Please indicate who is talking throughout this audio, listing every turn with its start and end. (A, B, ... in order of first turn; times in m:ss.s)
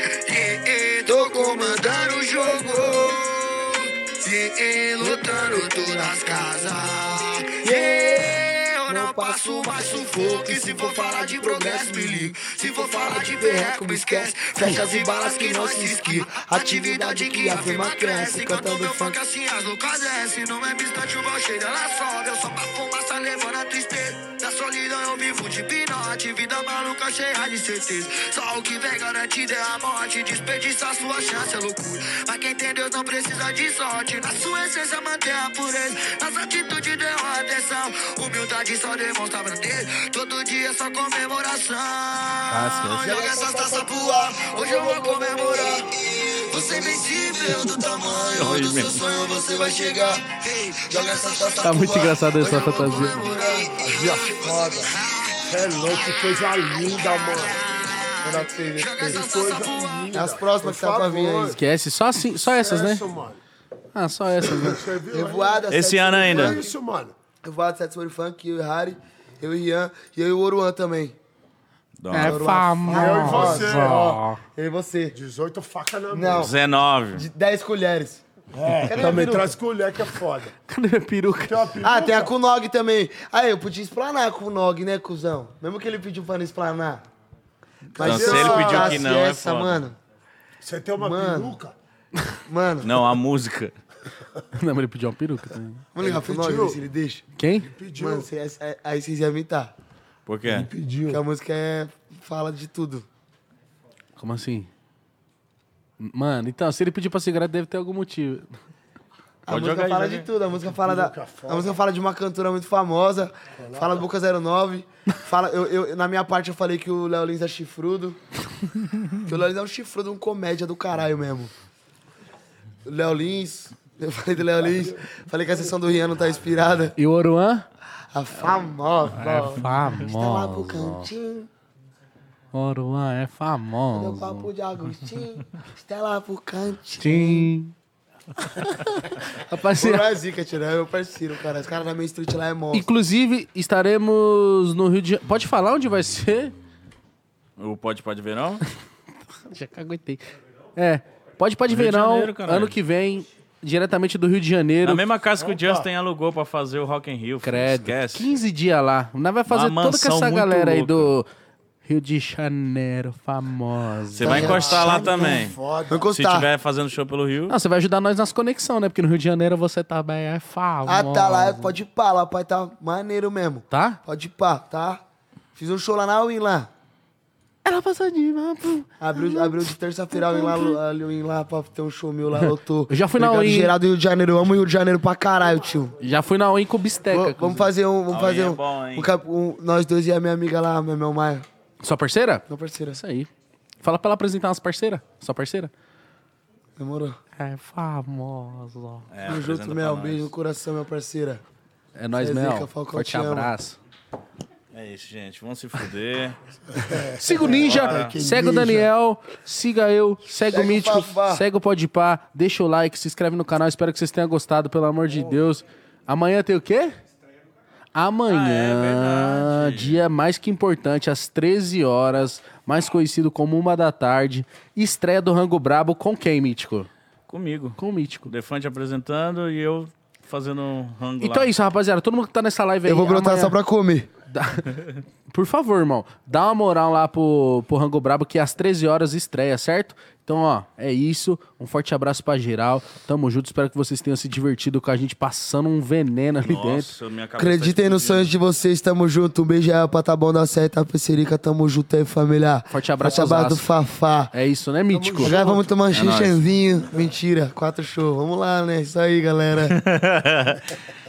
0:00.3-1:00.1 A
0:01.1-0:03.1 B
0:05.0-0:06.8 B
0:07.6-0:08.3 B
0:08.9-0:19.2 B
0:42.5-0:43.1 C
0:43.0-0:45.9 B
0:46.5-0:50.2 B
0:48.3-0:49.0 D
0:50.9-0:53.9 B
0:51.6-0:53.3 C
0:53.7-0:54.9 E
0:55.5-0:57.6 E
0:58.2-0:59.2 B
0:59.0-1:01.6 E
1:00.1-1:01.6 B
1:01.5-1:03.0 C
1:02.4-1:03.4 E
1:03.9-1:04.8 C
1:04.4-1:07.2 E
1:05.1-1:06.6 B
1:05.7-1:06.6 D
1:07.4-1:11.2 B
1:12.0-1:12.4 D
1:12.1-1:14.4 C
1:12.2-1:15.2 B
1:12.9-1:14.2 E
1:15.1-1:16.5 E
1:16.1-1:16.5 B
1:16.4-1:17.3 D
1:17.1-1:18.2 B
1:18.5-1:20.6 E
1:18.8-1:19.6 B
1:20.7-1:21.7 C
1:21.5-1:22.3 E
1:21.8-1:27.0 B
1:27.9-1:29.1 E
1:28.0-1:30.0 B
1:28.0-1:29.9 D
1:30.6-1:31.8 E
1:31.0-1:31.6 B
1:32.5-1:33.0 B
1:32.8-1:33.7 D
1:34.5-1:35.8 C
1:36.0-1:37.2 B
1:36.0-1:36.8 E
1:37.4-1:37.7 C
1:37.6-1:38.3 E
1:38.0-1:39.7 B
1:40.3-1:40.7 D
1:40.5-1:41.2 E
1:41.1-1:43.1 B
1:44.2-1:44.7 C
1:46.0-1:48.5 C
1:49.5-1:58.2 B
1:49.5-1:50.3 D
1:50.7-1:51.8 E
1:53.6-1:54.1 E
1:59.2-2:01.5 B
2:02.8-2:07.0 B
2:07.0-2:07.7 C
2:08.1-2:11.5 B
2:09.1-2:11.1 C
2:12.5-2:14.5 C
2:13.9-2:17.5 B
2:17.0-2:17.7 C
2:18.4-2:20.1 C
2:19.4-2:22.9 B
2:22.7-2:26.6 C
2:27.6-2:28.6 D
2:29.5-2:30.2 C
2:30.8-2:35.0 C
2:31.7-2:32.8 D
2:34.8-2:38.3 D
2:35.4-2:35.9 E
2:37.4-2:41.3 C
2:39.5-2:41.1 D
2:41.8-2:44.6 C
2:44.1-2:45.6 D
2:44.2-2:46.5 B
2:44.2-2:46.1 E
2:46.1-2:47.5 D
2:47.5-2:51.8 C
2:50.8-2:55.0 B
2:53.7-2:54.0 C
2:55.6-2:56.7 B
2:57.6-3:00.8 C
2:59.0-3:05.9 B
3:02.4-3:03.7 C
3:06.0-3:07.7 C
3:07.1-3:11.5 B
3:08.1-3:09.1 D
3:11.8-3:13.3 C
3:12.5-3:13.0 B
3:13.8-3:15.7 C
3:16.8-3:17.2 B
3:17.4-3:19.1 C
3:19.1-3:20.3 D
3:19.3-3:21.4 B
3:22.0-3:23.8 C
3:22.2-3:23.5 B
3:24.7-3:26.4 D
3:26.7-3:28.9 E
3:27.2-3:37.0 C
3:27.5-3:28.2 D
3:30.5-3:31.4 B
3:38.0-3:46.9 C
3:38.3-3:40.0 D
3:47.3-3:51.5 D
3:47.8-3:48.3 C
3:51.2-3:53.6 C
3:52.8-3:54.1 B
3:54.3-3:54.8 C
3:55.3-4:06.9 C
4:06.4-4:08.3 D
4:07.4-4:14.3 B
4:12.7-4:13.7 C
4:14.3-4:15.4 C
4:14.9-4:15.7 E
4:15.2-4:19.8 B
4:15.9-4:16.4 D
4:19.6-4:20.7 D